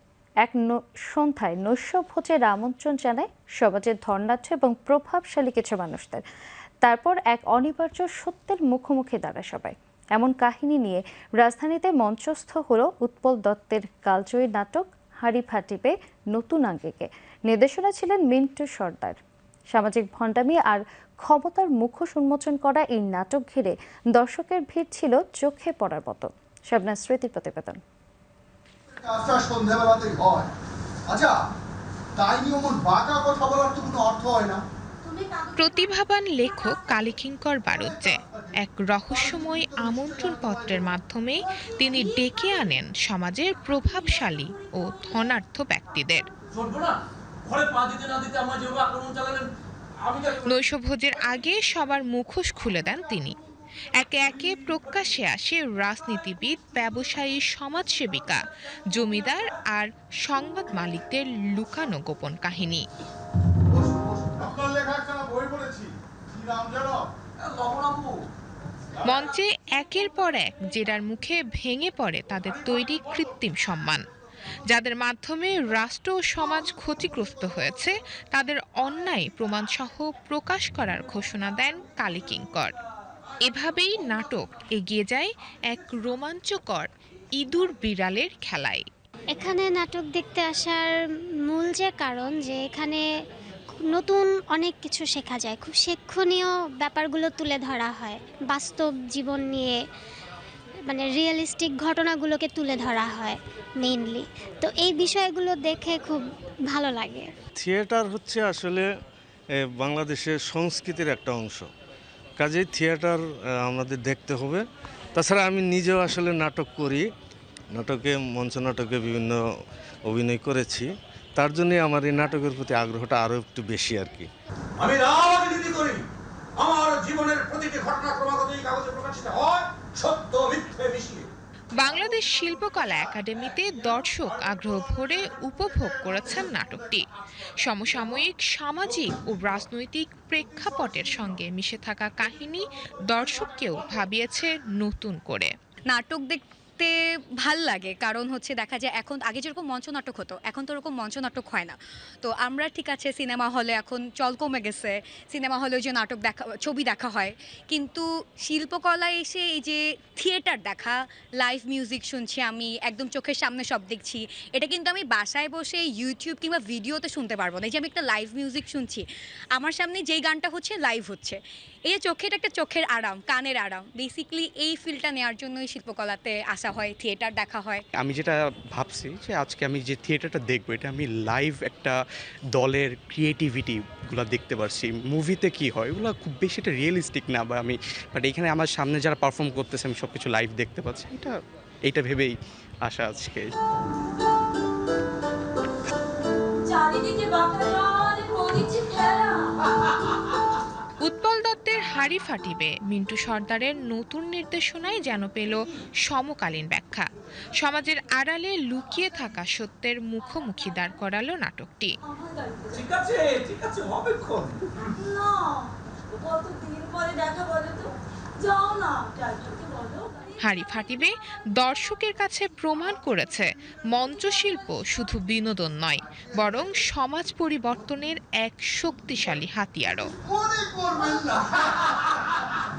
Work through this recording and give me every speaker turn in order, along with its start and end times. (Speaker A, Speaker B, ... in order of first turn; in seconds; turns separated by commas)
Speaker A: 0.4-6.2, Speaker A: 6.8-19.2, Speaker A: 19.7-27.8, Speaker B: 28.9-30.5, Speaker B: 31.1-31.4, Speaker B: 32.2-34.6, Speaker C: 35.5-46.3, Speaker B: 39.1-40.9, Speaker D: 41.9-42.6, Speaker D: 44.1-45.1, Speaker E: 46.5-49.5, Speaker E: 50.0-50.4, Speaker C: 50.4-53.4, Speaker C: 54.0-62.9, Speaker B: 63.7-67.1, Speaker E: 67.4-68.2, Speaker C: 69.0-74.1, Speaker C: 74.7-82.8, Speaker C: 83.5-88.9, Speaker F: 89.3-93.1, Speaker F: 93.8-99.8, Speaker F: 100.9-107.3, Speaker G: 107.6-108.9, Speaker G: 109.6-111.7, Speaker G: 112.4-114.6, Speaker G: 115.2-117.1, Speaker G: 117.7-119.4, Speaker G: 120.1-124.3, Speaker E: 124.8-126.0, Speaker E: 126.6-131.3, Speaker C: 131.8-145.5, Speaker E: 134.4-135.0, Speaker H: 145.9-169.0, Speaker H: 169.6-177.8, Speaker I: 177.9-182.0, Speaker I: 182.5-193.5, Speaker D: 196.7-199.5, Speaker C: 201.0-211.9, Speaker D: 212.1-212.7, Speaker E: 212.7-214.6, Speaker D: 215.0-215.7, Speaker D: 216.2-220.4, Speaker C: 220.4-230.1, Speaker B: 230.2-231.8